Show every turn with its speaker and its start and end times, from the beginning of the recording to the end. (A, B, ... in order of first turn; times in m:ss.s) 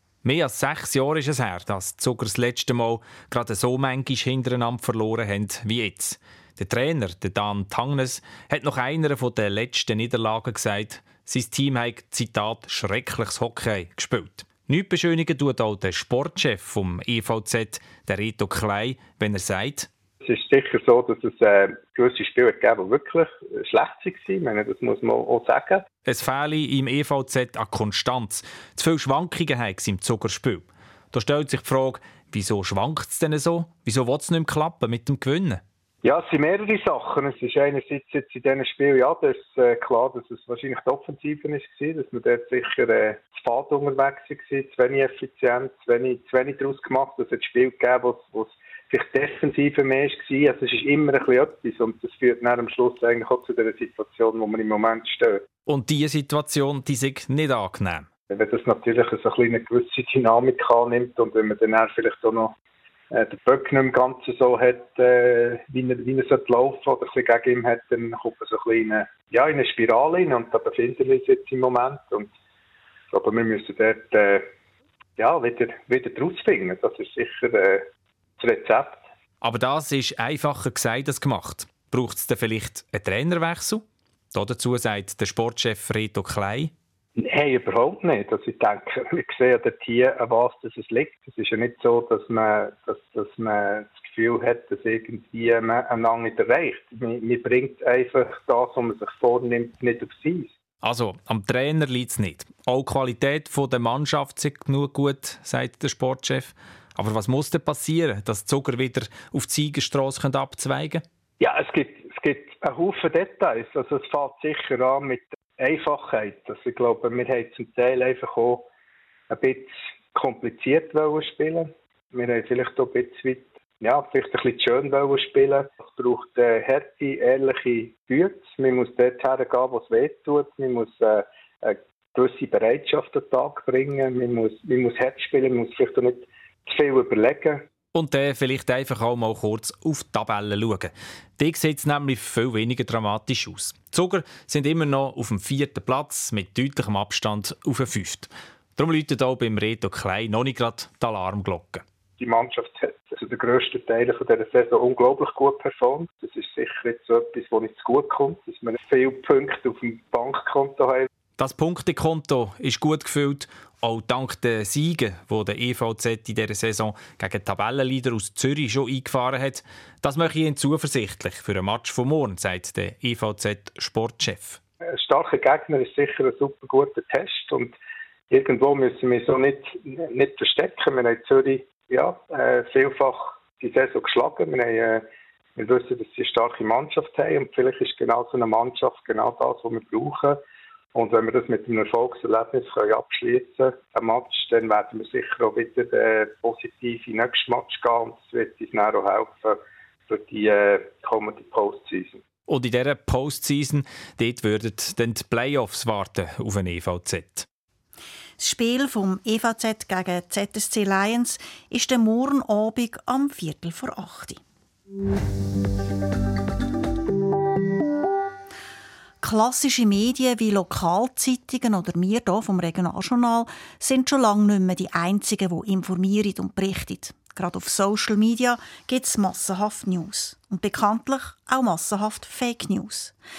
0:00.2-0:19.9 A
0:20.2-0:25.8 B
0:26.0-0:35.6 A
0:36.0-0:55.4 B
0:55.7-0:58.1 A
0:58.3-1:02.5 B
1:03.1-1:12.3 B
1:13.1-1:14.5 B
1:15.2-1:17.8 B
1:18.4-1:19.0 B
1:19.4-1:26.7 A
1:27.2-1:40.5 B
1:40.8-1:51.0 A
1:51.4-1:58.7 B
1:59.3-2:17.6 B
2:17.9-2:31.8 A
2:32.2-2:41.1 B
2:41.4-2:54.6 A
2:54.9-2:57.7 B
2:58.3-3:10.4 B
3:10.9-3:22.2 B
3:22.5-3:27.4 A
3:28.4-3:34.4 C
3:39.2-3:53.1 C